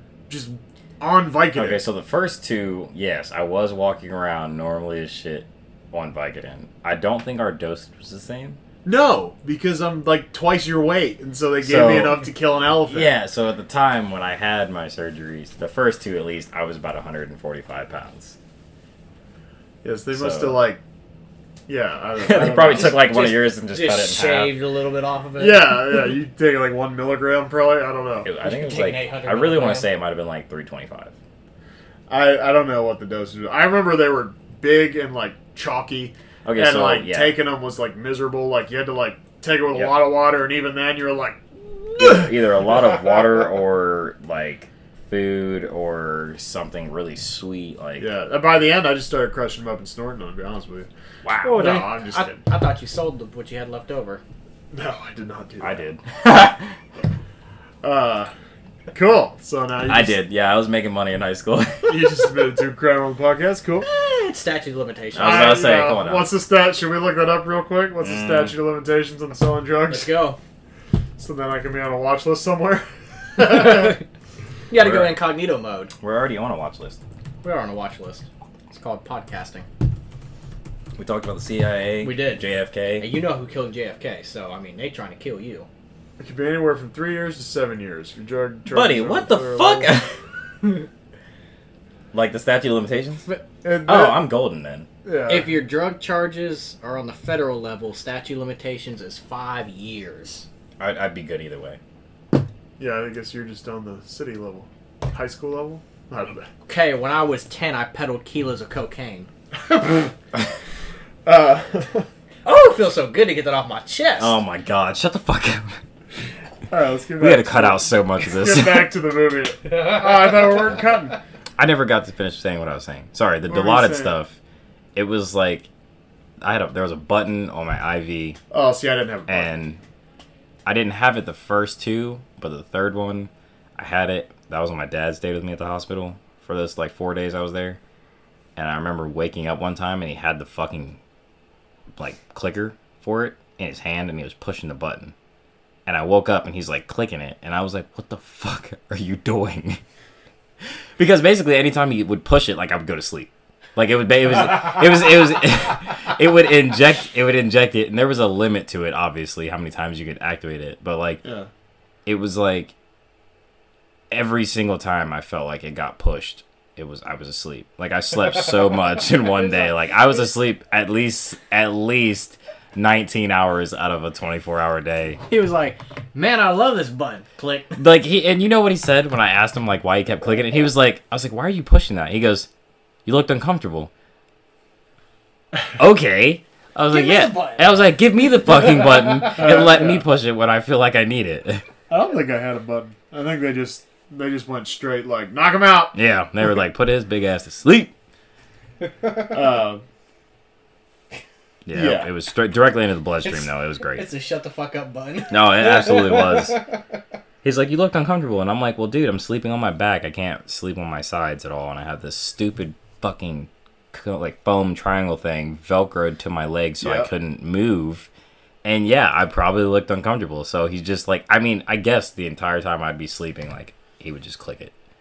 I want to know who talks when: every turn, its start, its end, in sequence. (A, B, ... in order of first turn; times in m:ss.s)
0:00.3-0:01.8 A
0:01.5-0:08.6 B
0:08.8-0:13.1 A
0:11.6-0:12.2 B
0:12.9-0:18.4 B
0:19.8-0:20.8 A
0:20.1-0:20.6 B
0:21.7-0:23.1 A
0:22.2-0:24.6 B
0:22.8-0:25.8 C
0:25.4-0:28.3 A
0:28.2-0:31.1 B
0:28.4-0:29.9 C
0:32.1-0:42.3 A
0:36.4-0:37.4 B
0:39.7-0:40.0 B
0:42.0-0:48.1 B
0:48.0-0:50.9 A
0:51.2-0:51.8 B
0:51.4-0:54.2 C
0:51.5-0:52.4 A
0:54.7-0:55.9 A
0:55.6-0:56.8 B
0:57.8-0:58.3 A
0:58.9-1:00.2 A
0:59.9-1:02.3 B
1:01.8-1:03.9 A
1:03.8-1:05.7 C
1:05.1-1:06.3 B
1:05.2-1:10.3 A
1:08.0-1:08.6 B
1:09.9-1:10.4 C
1:11.2-1:14.0 A
1:13.4-1:13.9 C
1:14.7-1:15.9 C
1:14.7-1:15.2 B
1:16.0-1:17.0 B
1:17.4-1:19.7 C
1:21.0-1:23.1 B
1:22.0-1:22.4 C
1:23.0-1:25.7 C
1:26.2-1:30.0 A
1:28.7-1:30.1 B
1:32.1-1:33.2 B
1:33.6-1:34.3 A
1:33.9-1:34.9 B
1:35.0-1:35.5 A
1:35.3-1:40.5 C
1:40.8-1:41.8 B
1:42.8-1:46.5 A
1:46.7-1:49.3 C
1:49.6-1:50.1 A
1:51.2-1:52.1 A
1:52.4-1:54.4 C
1:54.2-1:55.8 B
1:56.7-2:01.2 A
1:57.2-1:58.9 B
2:01.6-2:04.4 B
2:03.5-2:04.2 A
2:05.0-2:05.7 B
2:06.4-2:08.4 B
2:08.5-2:09.6 A
2:09.3-2:09.8 B
2:10.6-2:17.8 B
2:18.6-2:21.0 B
2:22.0-2:25.1 B
2:25.9-2:29.8 B
2:30.6-2:41.2 B
2:41.2-2:41.5 A
2:42.1-2:42.7 B
2:44.1-2:55.2 B
2:55.3-2:57.8 C
2:57.8-3:02.5 B
3:03.1-3:03.9 B
3:05.8-3:11.6 B
3:06.9-3:07.6 C
3:09.3-3:10.0 A
3:11.9-3:16.0 A
3:15.9-3:17.9 B
3:19.2-3:19.8 A
3:21.7-3:24.1 B
3:21.7-3:22.1 A
3:23.3-3:26.7 C
3:25.3-3:26.8 B
3:27.4-3:38.1 B
3:36.8-3:37.1 A
3:38.6-3:44.7 B